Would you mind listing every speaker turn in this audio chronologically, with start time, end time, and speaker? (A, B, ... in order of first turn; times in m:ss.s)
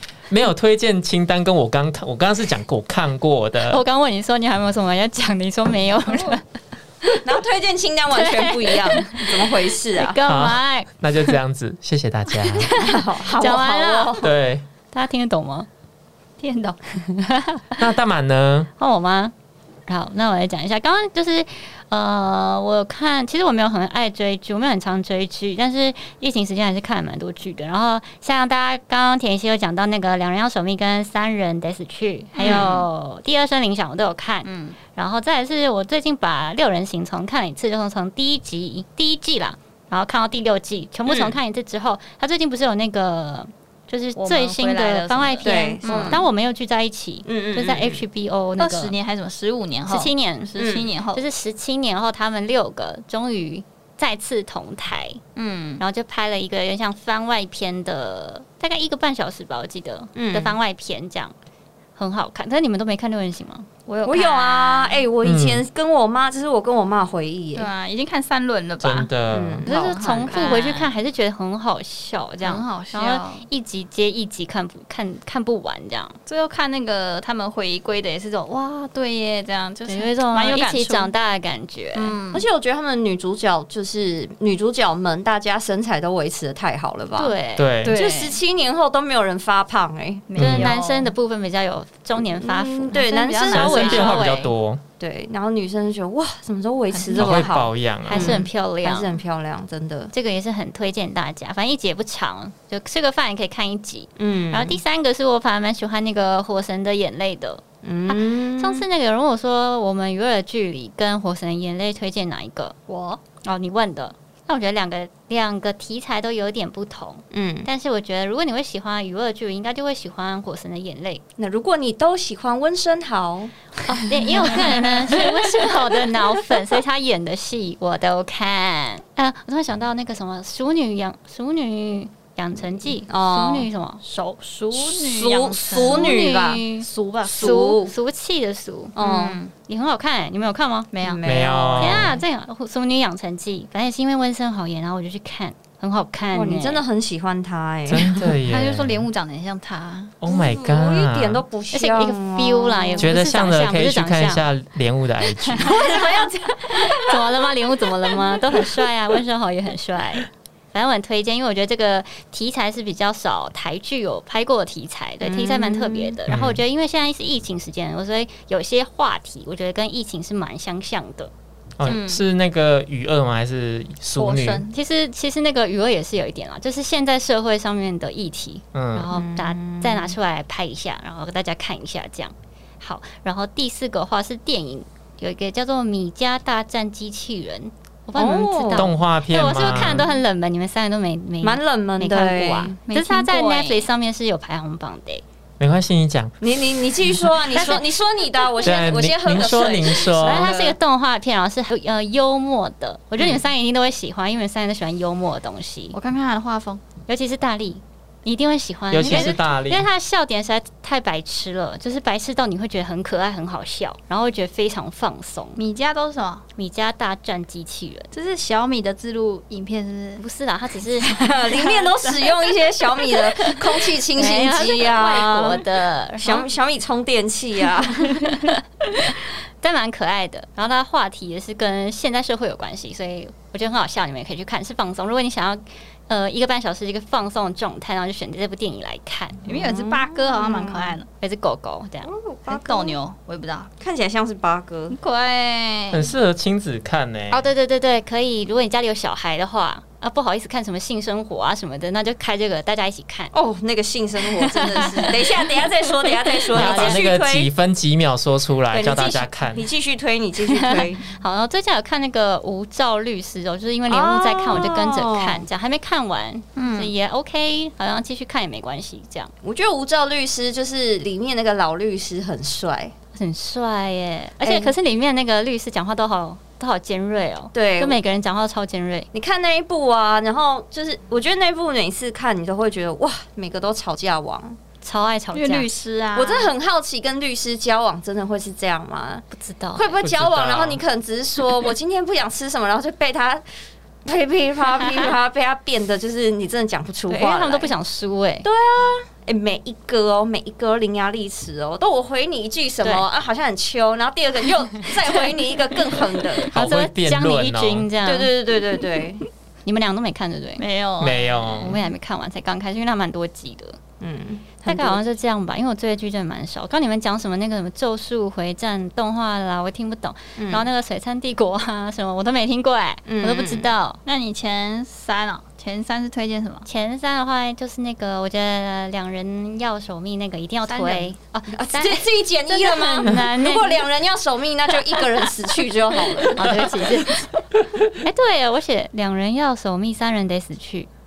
0:00.3-0:03.8 A
0:03.7-0:06.4 B
0:07.2-0:10.2 C
0:08.1-0:11.3 B
0:10.2-0:12.7 A
0:12.4-0:14.3 B
0:12.7-0:14.3 C
0:14.2-0:14.6 A
0:14.9-0:15.7 B
0:16.4-0:16.8 D
0:16.9-0:17.8 B
0:17.8-0:18.7 A
0:18.8-0:19.3 B
0:19.8-0:48.9 B
0:32.3-0:32.8 D
0:32.4-0:32.8 C
0:34.4-0:34.8 D
0:41.1-0:41.4 C
0:44.2-0:46.2 D
0:45.4-0:46.2 C
0:47.2-0:48.0 C
0:48.6-0:51.2 D
0:49.9-0:50.6 B
0:50.6-0:50.9 C
0:51.1-0:55.2 B
0:55.4-0:55.8 D
0:55.8-1:01.3 B
1:00.1-1:00.6 C
1:02.0-1:03.7 B
1:03.9-1:05.0 D
1:04.0-1:07.7 C
1:05.2-1:05.6 A
1:07.5-1:09.1 D
1:08.8-1:09.6 A
1:09.3-1:10.4 C
1:09.7-1:10.9 D
1:09.7-1:16.2 B
1:12.4-1:13.4 D
1:16.3-1:21.1 D
1:19.9-1:22.2 B
1:21.9-1:22.4 D
1:22.3-1:27.3 C
1:27.2-1:28.3 B
1:27.6-1:28.0 A
1:27.8-1:28.3 D
1:27.9-1:30.4 C
1:30.3-1:31.1 D
1:30.4-1:30.7 A
1:30.4-1:34.5 B
1:32.2-1:34.2 C
1:32.9-1:34.4 D
1:33.5-1:34.8 A
1:35.0-1:40.1 C
1:36.9-1:37.5 D
1:37.1-1:38.4 A
1:38.0-1:39.2 B
1:40.1-1:52.8 B
1:44.2-1:44.8 C
1:47.8-1:48.8 C
1:52.9-1:53.2 D
1:53.3-2:01.2 B
1:57.3-1:57.7 C
2:01.4-2:03.5 C
2:03.9-2:14.0 B
2:04.4-2:04.8 D
2:13.1-2:13.7 C
2:14.0-2:17.8 D
2:14.7-2:16.6 C
2:15.7-2:20.9 B
2:17.2-2:17.9 C
2:19.0-2:19.5 C
2:20.9-2:21.2 D
2:21.0-2:22.1 C
2:21.2-2:22.2 A
2:21.8-2:26.8 B
2:26.3-2:28.2 C
2:27.9-2:29.0 A
2:28.2-2:30.2 D
2:30.2-2:31.4 A
2:30.2-2:33.1 C
2:31.7-2:34.4 B
2:33.0-2:35.7 A
2:35.6-2:37.1 C
2:35.8-2:36.2 D
2:36.8-2:51.3 B
2:45.2-2:46.2 C
2:46.3-2:46.6 A
2:51.8-2:54.6 A
2:51.8-2:52.2 D
2:54.2-2:54.7 D
2:54.7-3:15.2 B
2:58.7-2:59.1 A
2:59.1-3:00.2 C
3:08.1-3:08.9 C
3:08.7-3:10.1 A
3:11.4-3:12.8 C
3:12.9-3:13.9 D
3:15.6-3:16.4 A
3:16.4-3:20.8 C
3:17.5-3:17.8 B
3:18.6-3:20.5 A
3:20.1-3:26.0 B
3:25.9-3:26.8 D
3:27.0-3:35.6 B
3:28.9-3:29.9 A
3:29.0-3:29.3 D
3:35.6-3:36.4 D
3:36.6-3:38.1 B
3:38.1-3:40.2 D
3:40.2-3:41.2 B
3:41.1-3:45.6 C
3:41.5-3:42.4 D
3:44.1-3:46.5 B
3:46.2-3:48.3 C
3:48.8-3:59.4 B
3:59.4-4:01.1 D
3:59.5-4:01.0 C
4:01.2-4:02.1 B
4:02.0-4:03.0 C
4:02.5-4:03.7 D
4:03.8-4:05.0 C
4:04.9-4:06.0 D
4:05.9-4:07.5 A
4:07.3-4:13.3 B
4:13.3-4:17.5 C
4:14.4-4:15.3 B
4:16.5-4:17.0 B
4:16.5-4:19.6 A
4:18.7-4:21.0 C
4:20.6-4:29.3 B
4:23.9-4:25.4 C
4:26.6-4:26.9 D
4:29.4-4:32.9 C
4:33.1-4:39.1 B
4:34.4-4:34.7 C
4:37.5-4:38.0 C
4:39.1-4:44.6 C
4:44.8-4:45.7 B
4:45.3-4:46.5 D
4:46.1-4:53.4 C
4:49.3-4:49.9 B
4:50.0-4:50.8 A
4:54.0-4:57.7 C
4:57.1-4:58.5 B
4:58.4-5:06.5 C
5:06.4-5:08.3 B
5:06.5-5:07.9 A
5:08.0-5:09.2 C
5:09.6-5:10.6 B
5:10.6-5:11.8 D
5:11.0-5:11.8 A
5:11.5-5:13.8 B
5:14.0-5:15.0 C
5:14.6-5:24.0 B
5:20.4-5:20.7 C
5:23.1-5:23.7 C
5:24.0-5:26.7 D
5:26.6-5:33.8 B
5:30.7-5:31.1 D
5:31.5-5:36.5 C
5:36.4-5:37.2 B
5:38.0-5:40.9 B